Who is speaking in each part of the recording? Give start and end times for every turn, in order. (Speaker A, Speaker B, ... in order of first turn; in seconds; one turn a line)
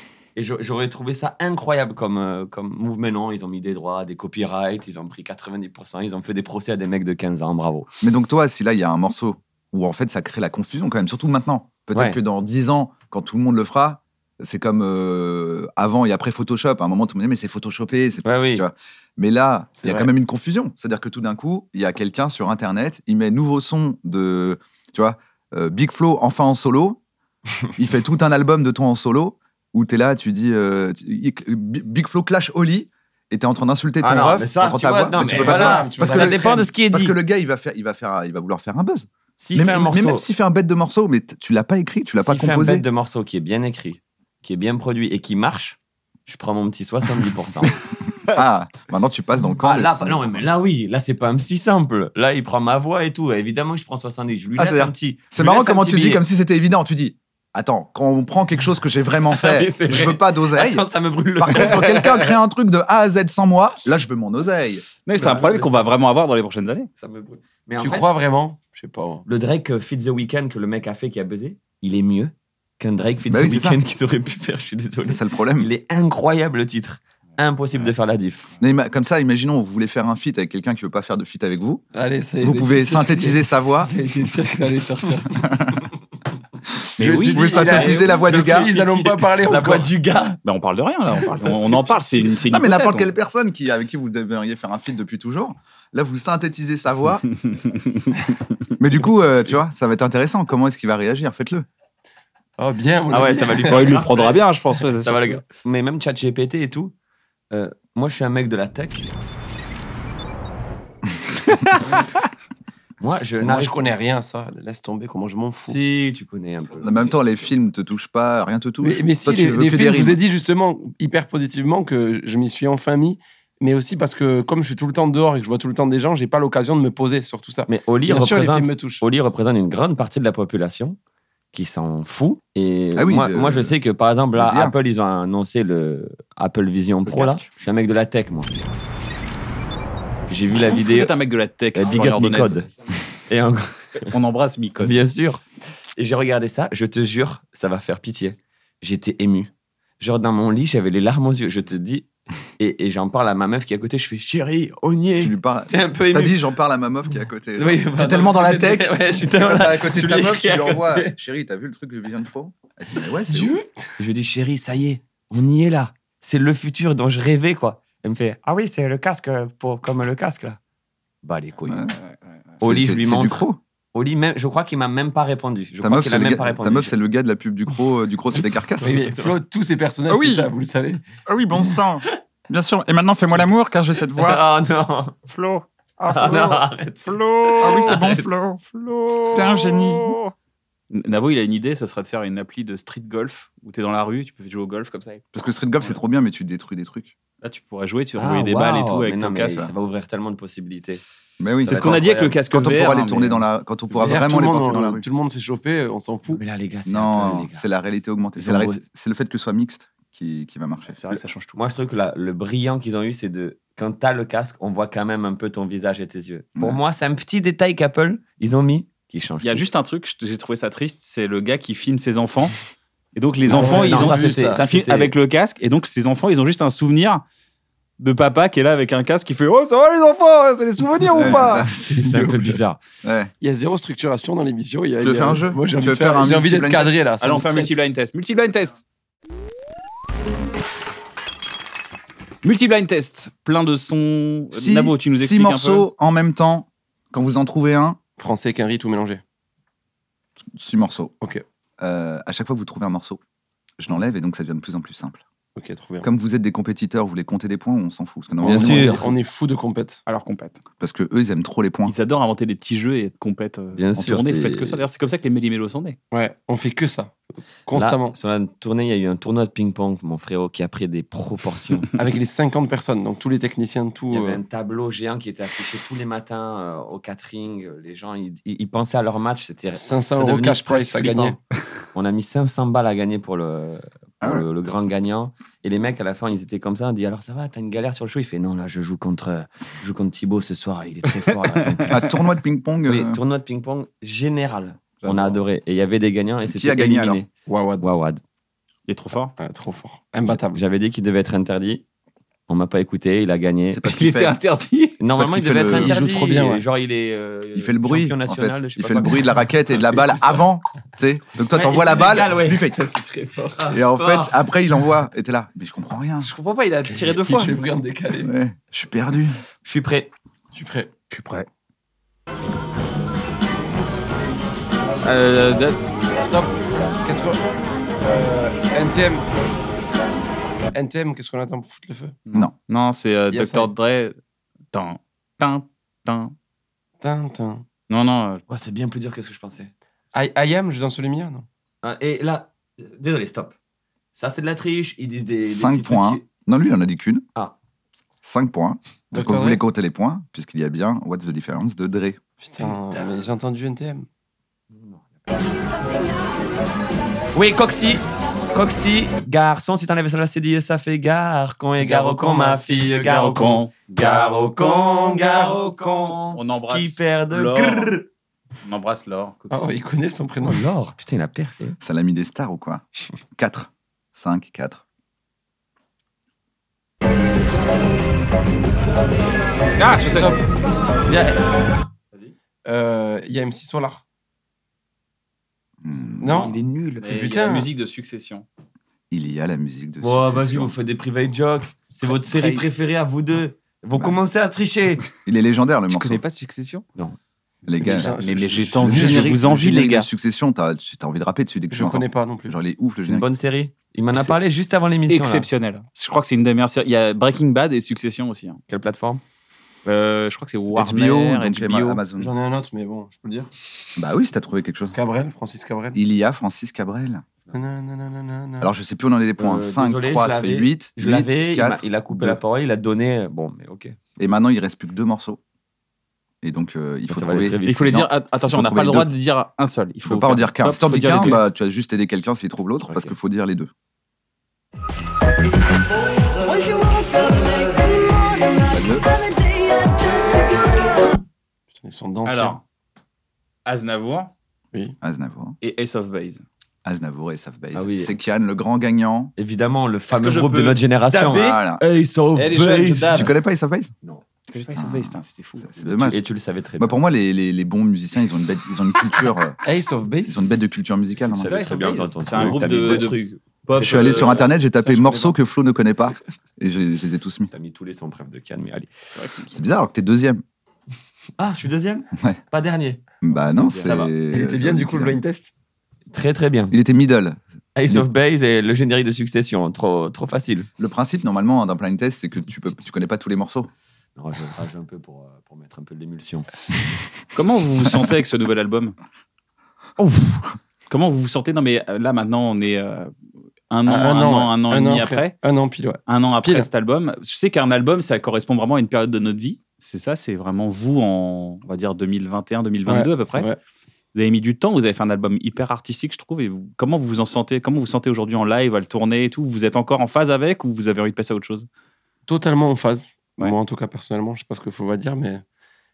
Speaker A: 0.3-7.9
Speaker B: 8.0-27.0
Speaker A: 11.9-12.2
Speaker A: 18.2-18.6
Speaker C: 19.8-20.1
Speaker B: 27.8-42.9
Speaker A: 34.0-37.1
Speaker C: 35.2-36.6
Speaker A: 39.4-40.2
Speaker A: 42.2-47.8
Speaker B: 48.3-50.5
Speaker A: 49.6-56.2
Speaker B: 54.6-64.8
Speaker A: 59.3-62.3
Speaker D: 65.0-66.9
Speaker A: 65.2-65.9
Speaker A: 67.0-68.1
Speaker C: 67.8-69.2
Speaker A: 69.2-78.5
Speaker B: 73.3-73.8
Speaker B: 75.0-75.7
Speaker B: 78.6-81.8
Speaker C: 81.9-85.5
Speaker B: 82.4-83.9
Speaker B: 85.4-85.8
Speaker D: 87.0-88.1
Speaker C: 87.0-89.9
Speaker B: 87.3-88.7
Speaker A: 88.3-90.4
Speaker D: 90.4-93.1
Speaker A: 91.4-92.0
Speaker B: 92.5-97.2
Speaker D: 97.4-98.1
Speaker B: 98.8-101.7
Speaker C: 102.6-103.9
Speaker A: 103.1-104.4
Speaker D: 103.7-105.4
Speaker A: 105.0-106.9
Speaker A: 107.5-109.1
Speaker A: 113.0-113.9
Speaker C: 113.4-115.8
Speaker A: 115.7-117.2
Speaker B: 116.8-120.2
Speaker C: 118.8-129.0
Speaker A: 127.7-131.0
Speaker A: 131.5-138.5
Speaker B: 132.9-133.7
Speaker B: 134.3-134.7
Speaker D: 137.1-137.4
Speaker A: 140.3-141.1
Speaker D: 140.7-142.6
Speaker A: 141.7-142.7
Speaker A: 143.3-144.1
Speaker D: 144.0-144.9
Speaker A: 144.8-145.4
Speaker A: 145.9-152.1
Speaker A: 152.6-156.4
Speaker B: 155.2-163.6
Speaker A: 157.6-161.1
Speaker A: 163.4-170.6
Speaker A: 171.2-171.8
Speaker B: 171.7-171.9
Speaker D: 172.0-172.4
Speaker B: 172.6-173.6
Speaker A: 172.6-176.9
Speaker B: 175.8-178.9
Speaker A: 178.3-179.3
Speaker C: 178.8-181.0
Speaker E: 180.1-180.5
Speaker E: 181.3-184.4
Speaker A: 184.1-185.2
Speaker E: 185.2-190.3
Speaker A: 186.1-188.3
Speaker A: 189.2-189.8
Speaker D: 190.9-195.2
Speaker B: 195.3-197.1
Speaker D: 197.4-199.7
Speaker A: 198.2-201.0
Speaker B: 201.4-205.1
Speaker A: 201.6-202.4
Speaker D: 201.7-203.4
Speaker C: 203.9-206.4
Speaker A: 206.3-207.6
Speaker B: 206.8-210.9
Speaker A: 208.4-208.8
Speaker D: 210.9-211.6
Speaker A: 211.1-219.7
Speaker D: 219.4-222.6
Speaker D: 223.1-227.2
Speaker A: 223.5-225.1
Speaker C: 223.5-224.6
Speaker D: 228.0-231.7
Speaker B: 231.1-231.7
Speaker A: 231.2-232.8
Speaker C: 231.7-232.6
Speaker B: 233.0-233.3
Speaker C: 233.4-237.8
Speaker B: 235.0-236.9
Speaker D: 237.2-238.8
Speaker D: 242.4-245.9
Speaker B: 244.5-248.0
Speaker C: 248.2-249.2
Speaker B: 250.5-251.1
Speaker B: 251.8-253.2
Speaker B: 253.8-255.2
Speaker C: 255.6-256.1
Speaker B: 256.0-259.0
Speaker A: 258.4-259.0
Speaker C: 258.4-260.0
Speaker D: 260.1-260.6
Speaker B: 260.8-261.9
Speaker D: 261.9-266.0
Speaker A: 263.7-264.8
Speaker C: 266.1-268.1
Speaker A: 267.7-271.9
Speaker C: 272.0-274.4
Speaker A: 274.1-281.4
Speaker C: 279.8-281.4
Speaker A: 281.9-292.0
Speaker B: 291.9-293.2
Speaker A: 292.9-297.3
Speaker D: 295.0-295.4
Speaker B: 296.5-297.2
Speaker C: 297.5-297.8
Speaker A: 297.8-298.2
Speaker D: 298.9-299.3
Speaker C: 299.4-300.6
Speaker A: 300.5-301.8
Speaker A: 302.5-303.8
Speaker B: 303.7-304.4
Speaker D: 303.9-305.0
Speaker A: 305.0-310.4
Speaker B: 305.1-305.9
Speaker C: 305.7-306.6
Speaker B: 307.5-312.8
Speaker A: 311.5-314.4
Speaker B: 313.7-316.3
Speaker D: 316.2-317.6
Speaker C: 317.1-318.3
Speaker B: 318.2-319.4
Speaker A: 319.6-320.1
Speaker C: 320.5-320.9
Speaker D: 321.1-321.5
Speaker D: 325.0-325.8
Speaker C: 326.2-327.4
Speaker C: 328.0-329.2
Speaker C: 330.7-332.1
Speaker D: 332.3-334.1
Speaker C: 333.3-333.7
Speaker D: 334.7-336.3
Speaker C: 337.0-337.6
Speaker D: 337.9-338.4
Speaker A: 338.5-339.7
Speaker C: 340.1-341.4
Speaker A: 341.8-343.5
Speaker A: 344.1-346.2
Speaker B: 345.4-347.2
Speaker B: 348.2-352.2
Speaker C: 349.1-349.6
Speaker C: 352.4-354.1
Speaker A: 352.6-353.1
Speaker A: 354.7-355.6
Speaker A: 357.3-368.0
Speaker C: 361.8-362.9
Speaker D: 362.9-368.0
Speaker D: 368.6-369.7
Speaker C: 369.5-370.6
Speaker A: 370.4-371.8
Speaker B: 371.8-374.8
Speaker D: 379.8-380.4
Speaker C: 380.1-380.4
Speaker C: 381.1-381.5
Speaker C: 382.6-384.0
Speaker B: 385.8-386.5
Speaker C: 386.2-386.5
Speaker D: 386.4-388.4
Speaker A: 386.7-387.0
Speaker C: 387.1-387.7
Speaker B: 389.1-390.7
Speaker A: 390.0-395.0
Speaker D: 392.1-392.6
Speaker B: 395.2-396.2
Speaker D: 395.9-396.8
Speaker B: 397.7-398.2
Speaker C: 397.8-399.3
Speaker D: 398.0-400.1
Speaker B: 398.7-403.3
Speaker C: 401.7-402.5
Speaker A: 403.1-405.5
Speaker D: 405.1-408.6
Speaker A: 408.7-409.2
Speaker D: 409.8-412.0
Speaker B: 410.7-412.3
Speaker C: 412.2-413.5
Speaker B: 413.9-414.9
Speaker C: 414.9-416.0
Speaker B: 415.9-417.2
Speaker C: 417.5-418.7
Speaker B: 418.6-422.4
Speaker A: 419.4-423.9
Speaker B: 424.2-425.4
Speaker B: 426.4-429.1
Speaker A: 427.1-427.9
Speaker D: 427.6-431.4
Speaker B: 430.0-433.7
Speaker A: 432.9-433.1
Speaker B: 438.7-439.0
Speaker C: 441.8-442.6
Speaker D: 442.2-442.6
Speaker D: 443.6-444.3
Speaker B: 445.0-445.6
Speaker D: 445.6-446.4
Speaker B: 446.8-449.3
Speaker A: 447.7-448.1
Speaker A: 449.4-453.3
Speaker D: 450.1-451.6
Speaker B: 451.2-451.8
Speaker D: 452.3-453.3
Speaker B: 453.1-453.9
Speaker D: 454.5-455.7
Speaker B: 454.7-456.2
Speaker A: 455.8-457.0
Speaker B: 456.8-459.6
Speaker C: 459.6-460.4
Speaker B: 460.2-461.8
Speaker A: 461.3-464.5
Speaker D: 461.4-464.5
Speaker B: 463.7-467.5
Speaker C: 464.8-465.3
Speaker A: 467.5-469.1
Speaker D: 469.1-469.6
Speaker B: 469.5-470.4
Speaker A: 471.4-473.0
Speaker B: 473.2-475.2
Speaker D: 473.6-473.9
Speaker A: 473.7-474.1
Speaker C: 474.3-475.5
Speaker A: 476.1-476.7
Speaker B: 476.7-478.1
Speaker A: 477.8-480.7
Speaker B: 480.8-483.7
Speaker A: 484.2-486.5
Speaker D: 487.3-488.9
Speaker D: 490.0-493.1
Speaker D: 493.7-495.3
Speaker C: 493.9-496.7
Speaker D: 496.1-503.5
Speaker C: 502.9-503.6
Speaker D: 504.1-511.7
Speaker C: 512.3-515.4